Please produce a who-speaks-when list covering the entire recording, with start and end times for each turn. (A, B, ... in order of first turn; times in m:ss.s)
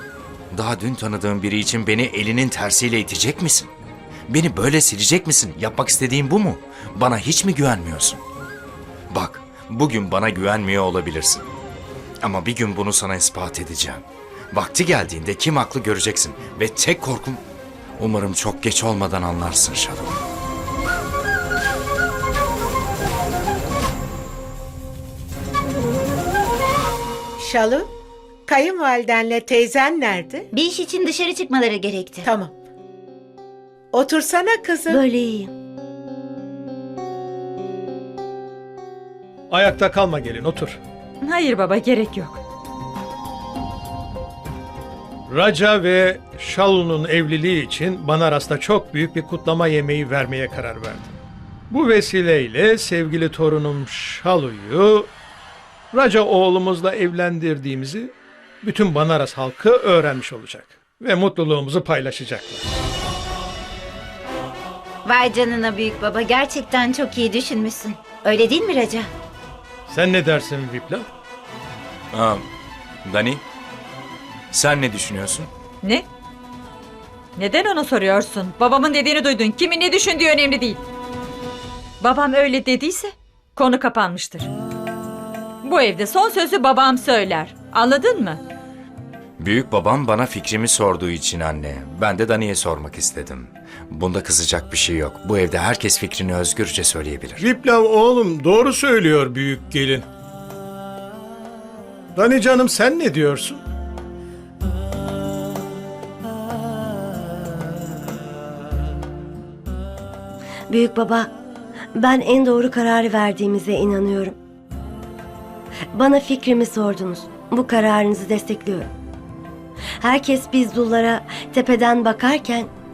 0:00.5-0:03.7 A
0:04.3-0:08.2 A
0:09.1-0:11.5 A
0:12.2-0:17.4 A
0:18.0-0:20.2 A
0:27.4-0:27.9 B
0:28.5-0:30.5 B
0:30.5-0:32.3 C
0:32.2-0:32.5 B
0:33.9-0:35.0 B
0:34.9-0:35.5 D
0:39.5-0:40.8 E
0:41.2-0:42.4 F
0:45.3-0:51.1 E
0:51.7-0:55.1 E
0:55.9-1:02.6 E
1:05.0-1:09.1 C
1:09.9-1:11.1 E
1:12.1-1:12.4 A
1:13.0-1:13.4 A
1:14.5-1:15.5 A
1:17.4-1:20.8 F
1:22.0-1:24.5 F
1:25.6-1:28.4 F
1:29.4-1:37.4 A
1:37.4-1:40.0 E
1:42.2-1:43.6 E
1:50.7-1:51.3 D
1:52.0-1:54.4 D
1:55.9-1:58.9 D
2:00.0-2:02.7 D